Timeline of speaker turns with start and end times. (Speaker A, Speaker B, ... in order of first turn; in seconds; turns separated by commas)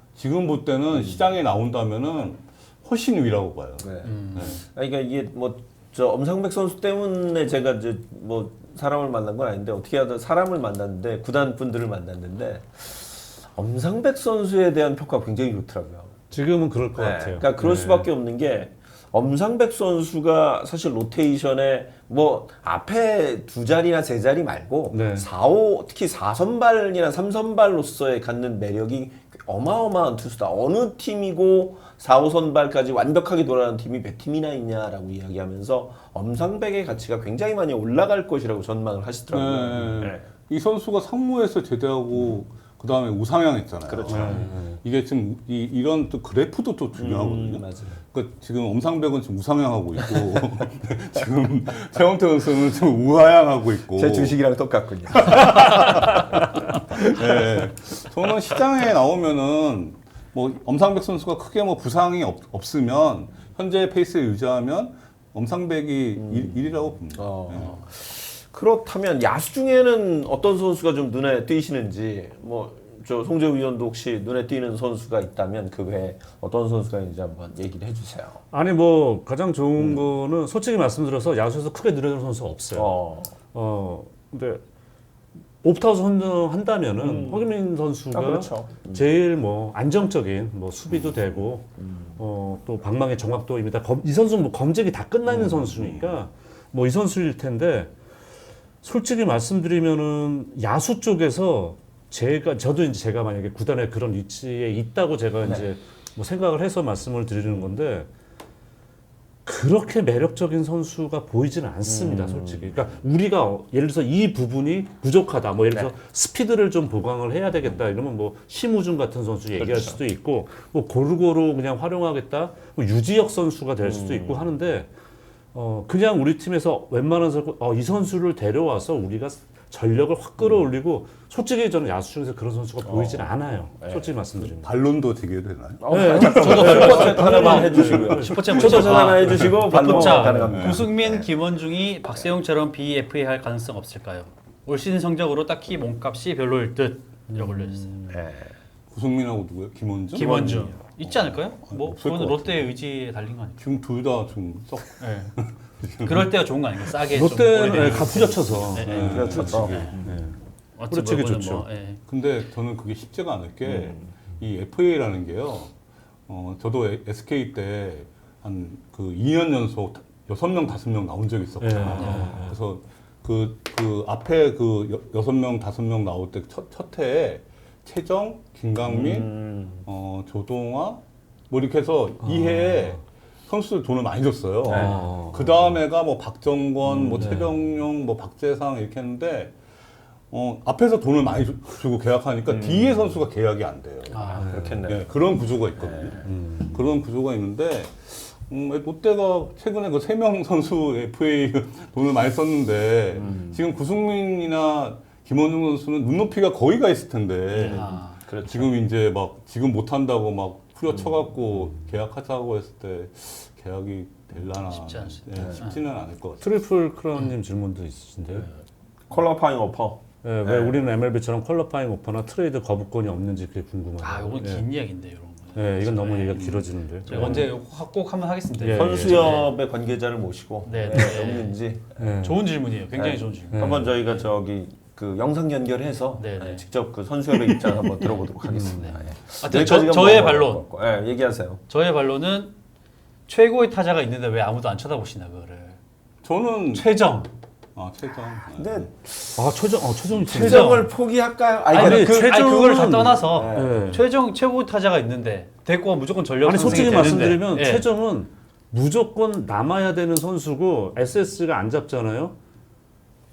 Speaker A: 0.1-4.6, Speaker B: 0.9-1.2, Speaker B: 3.8-16.1, Speaker C: 4.0-4.6, Speaker D: 16.3-18.1, Speaker B: 16.9-40.3, Speaker D: 24.9-25.2, Speaker A: 39.3-54.4, Speaker B: 43.9-44.5, Speaker D: 44.1-44.8, Speaker B: 47.0-48.0, Speaker B: 53.9-57.2, Speaker A: 55.1-67.8, Speaker B: 66.2-78.4, Speaker D: 78.5-82.9, Speaker B: 82.8-83.3, Speaker D: 83.5-84.6, Speaker D: 85.6-97.9, Speaker B: 87.0-87.5, Speaker B: 88.1-89.1, Speaker A: 90.9-91.4, Speaker B: 91.8-92.2, Speaker A: 95.5-96.2, Speaker D: 98.8-108.1, Speaker D: 109.5-124.9, Speaker B: 111.8-112.9, Speaker B: 119.6-120.0, Speaker B: 123.8-124.5, Speaker D: 125.5-134.7, Speaker B: 132.8-134.1, Speaker A: 134.4-139.7, Speaker B: 135.8-141.3, Speaker D: 135.9-140.6, Speaker C: 136.1-148.0, Speaker A: 140.5-140.9, Speaker D: 147.3-148.0, Speaker B: 148.1-148.6, Speaker A: 148.9-150.5, Speaker C: 150.1-153.7, Speaker B: 150.2-150.8, Speaker D: 150.3-150.7, Speaker A: 151.0-152.8, Speaker A: 153.6-156.3, Speaker C: 155.0-155.3, Speaker C: 156.0-160.0, Speaker D: 157.0-160.4, Speaker A: 157.7-159.9, Speaker B: 159.0-160.2, Speaker C: 160.8-162.0, Speaker D: 160.9-161.7, Speaker A: 162.1-165.7, Speaker B: 163.6-164.1, Speaker A: 166.3-179.3, Speaker D: 171.6-172.6, Speaker C: 171.9-172.4, Speaker B: 178.8-179.8, Speaker A: 179.8-189.6, Speaker D: 182.2-183.0, Speaker B: 184.7-185.0, Speaker D: 184.7-185.8, Speaker D: 187.1-187.6, Speaker A: 190.3-216.5, Speaker B: 192.4-193.1, Speaker C: 194.1-194.5, Speaker B: 194.3-195.1, Speaker D: 194.4-194.8, Speaker B: 195.8-196.3, Speaker D: 196.2-196.8, Speaker B: 203.1-203.6, Speaker B: 207.5-208.7, Speaker C: 207.7-208.2, Speaker C: 214.6-215.8, Speaker B: 215.3-215.6, Speaker D: 216.4-218.5, Speaker B: 219.1-220.8, Speaker D: 220.2-224.7, Speaker C: 224.0-229.5, Speaker D: 225.6-227.5, Speaker A: 226.3-226.7, Speaker B: 227.1-227.5, Speaker D: 228.5-229.4, Speaker B: 228.7-232.1, Speaker C: 230.6-231.6, Speaker D: 232.0-232.4, Speaker C: 232.2-234.2, Speaker B: 232.9-241.6, Speaker D: 233.5-233.9, Speaker C: 236.2-236.6, Speaker D: 238.5-239.0, Speaker C: 238.6-240.6, Speaker C: 241.7-242.5, Speaker C: 243.3-245.8, Speaker A: 246.2-246.9, Speaker C: 246.7-247.3, Speaker A: 247.8-248.9, Speaker B: 248.5-249.4, Speaker D: 249.4-250.9, Speaker B: 250.1-252.2, Speaker C: 250.3-250.9, Speaker C: 251.7-257.9, Speaker D: 251.7-254.1, Speaker B: 253.3-253.9, Speaker D: 256.4-262.4